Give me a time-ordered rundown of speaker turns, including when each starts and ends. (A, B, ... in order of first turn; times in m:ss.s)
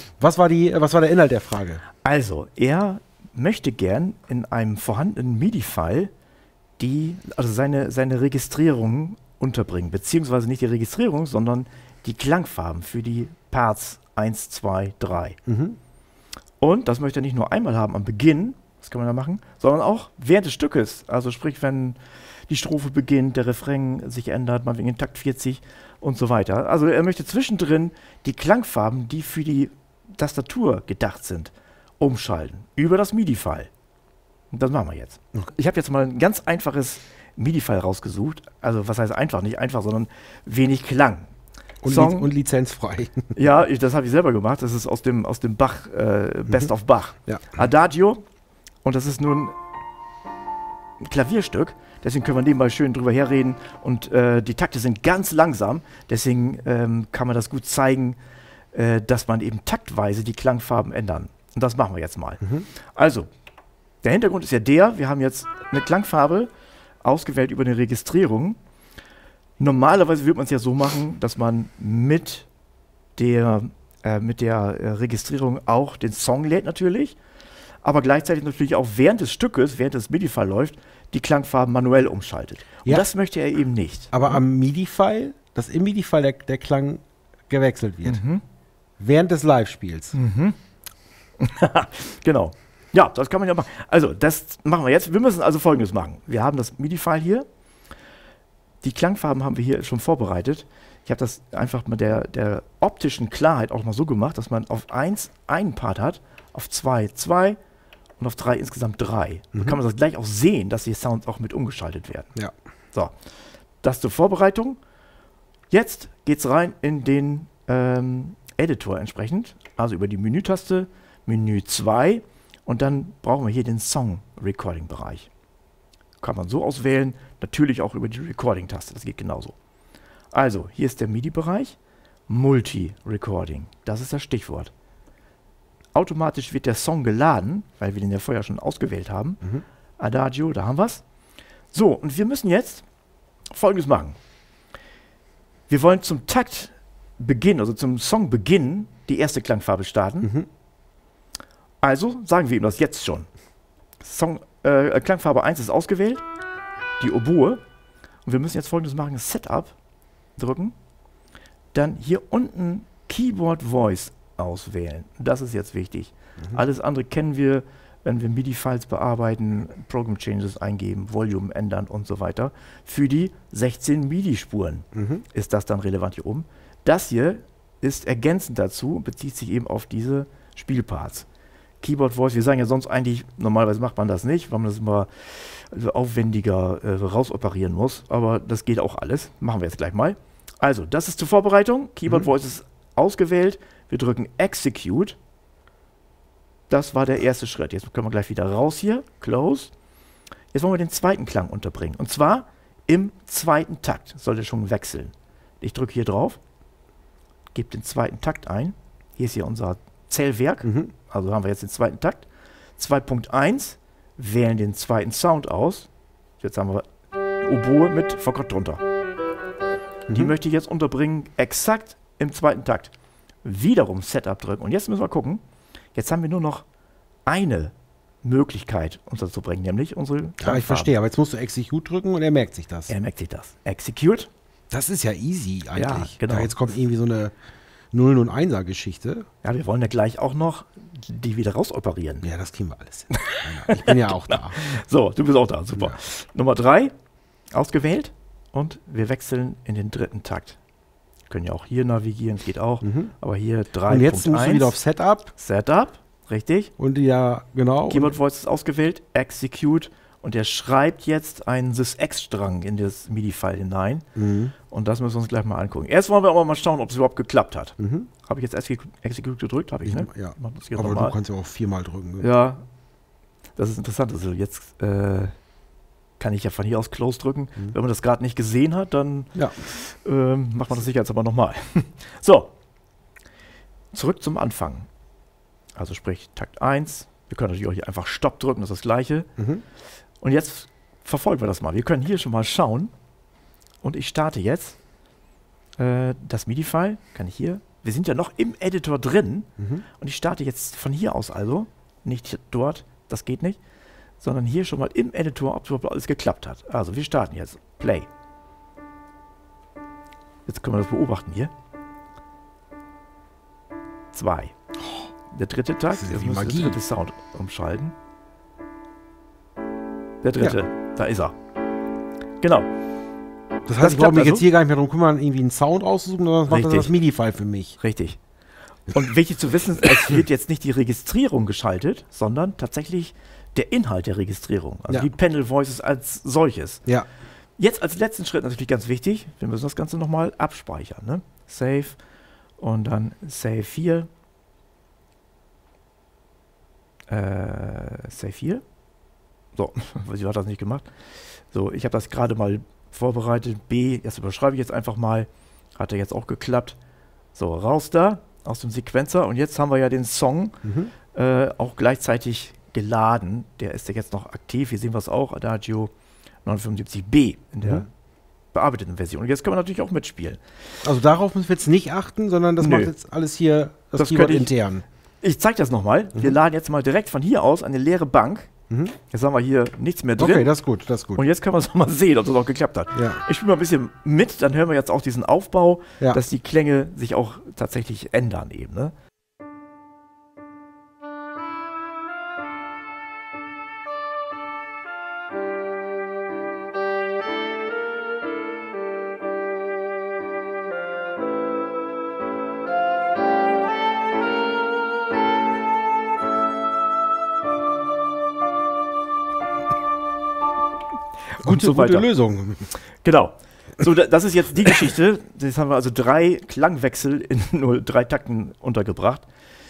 0:00.2-0:01.8 A
0:02.0-0:06.1 B
0:06.8-0:15.4 B
0:15.4-0:15.8 A
0:16.6-0:33.7 B
0:34.5-0:41.3 B
0:41.8-0:43.4 A
0:41.8-0:42.3 B
0:43.4-0:48.2 B
0:47.3-0:47.6 A
0:48.8-0:49.5 B
0:51.0-0:58.2 B
0:58.7-1:03.3 B
1:04.0-1:06.5 B
1:07.0-1:08.6 B
1:09.6-1:12.5 B
1:13.2-1:17.2 B
1:17.8-1:24.4 B
1:24.1-1:28.2 A
1:28.0-1:28.4 B
1:29.0-1:30.2 A
1:30.1-1:30.6 B
1:31.4-1:37.4 B
1:38.8-1:47.6 B
1:48.2-1:52.3 B
1:53.8-1:54.8 B
1:55.7-2:05.3 B
2:06.2-2:09.6 B
2:10.3-2:11.7 B
2:12.3-2:14.7 B
2:15.9-2:19.4 B
2:20.0-2:21.0 B
2:21.7-2:22.8 B
2:23.5-2:24.2 B
2:25.7-2:30.3 B
2:31.8-2:33.3 B
2:34.0-2:36.2 B
2:37.0-2:37.6 B
2:38.2-2:39.7 B
2:40.4-2:40.7 B
2:41.7-3:01.2 B
2:54.9-2:55.2 A
3:01.8-3:15.2 B
3:16.7-3:19.7 B
3:20.5-3:26.4 B
3:27.5-3:32.3 B
3:30.6-3:30.9 A
3:32.8-3:35.9 B
3:36.4-3:36.8 B
3:37.4-3:38.8 B
3:40.1-3:42.9 B
3:43.4-3:45.4 B
3:45.9-3:46.6 B
3:47.2-3:50.9 B
3:50.4-3:52.9 A
3:52.9-3:54.3 B
3:54.7-3:57.3 A
3:55.7-3:56.5 B
3:57.9-3:59.2 A
3:59.4-4:02.3 B
4:02.2-4:04.6 A
4:03.1-4:06.9 B
4:07.5-4:10.6 B
4:11.3-4:14.8 B
4:12.8-4:13.1 A
4:13.9-4:15.3 A
4:15.4-4:16.7 B
4:16.8-4:18.1 A
4:17.9-4:24.0 B
4:24.2-4:24.5 A
4:24.7-4:31.2 B
4:27.8-4:28.1 A
4:29.8-4:32.3 A
4:32.2-4:32.6 B
4:33.6-4:35.3 B
4:36.2-4:42.5 B
4:39.3-4:39.6 A
4:43.9-4:44.9 B
4:45.8-4:49.3 B
4:49.4-4:49.6 A
4:50.2-4:52.9 B
4:53.8-4:54.8 B
4:55.8-5:03.6 B
4:59.6-4:59.8 A
5:04.2-5:08.1 B
5:10.4-5:11.5 B
5:14.1-5:14.5 B
5:15.3-5:17.9 B
5:15.9-5:16.8 A
5:20.2-5:21.3 B
5:22.4-5:22.7 B
5:23.6-5:27.8 A
5:23.8-5:24.4 B
5:26.5-5:26.9 B
5:27.8-5:28.2 B
5:28.9-5:36.8 B
5:37.6-5:42.0 B
5:42.6-5:44.1 B
5:47.1-5:48.6 B
5:49.6-5:50.9 B
5:51.5-5:56.8 B
5:57.3-6:00.6 B
6:00.6-6:00.9 A
6:01.1-6:05.9 B
6:06.4-6:07.9 B
6:08.5-6:10.4 B
6:10.8-6:14.8 A
6:12.6-6:12.9 B
6:14.0-6:14.5 B
6:15.2-6:18.5 B
6:18.7-6:19.0 A
6:19.1-6:20.5 B
6:20.2-6:21.2 A
6:21.1-6:28.9 B
6:22.9-6:23.2 A
6:51.4-6:52.1 B
6:51.4-6:52.7 A
6:53.0-6:59.2 B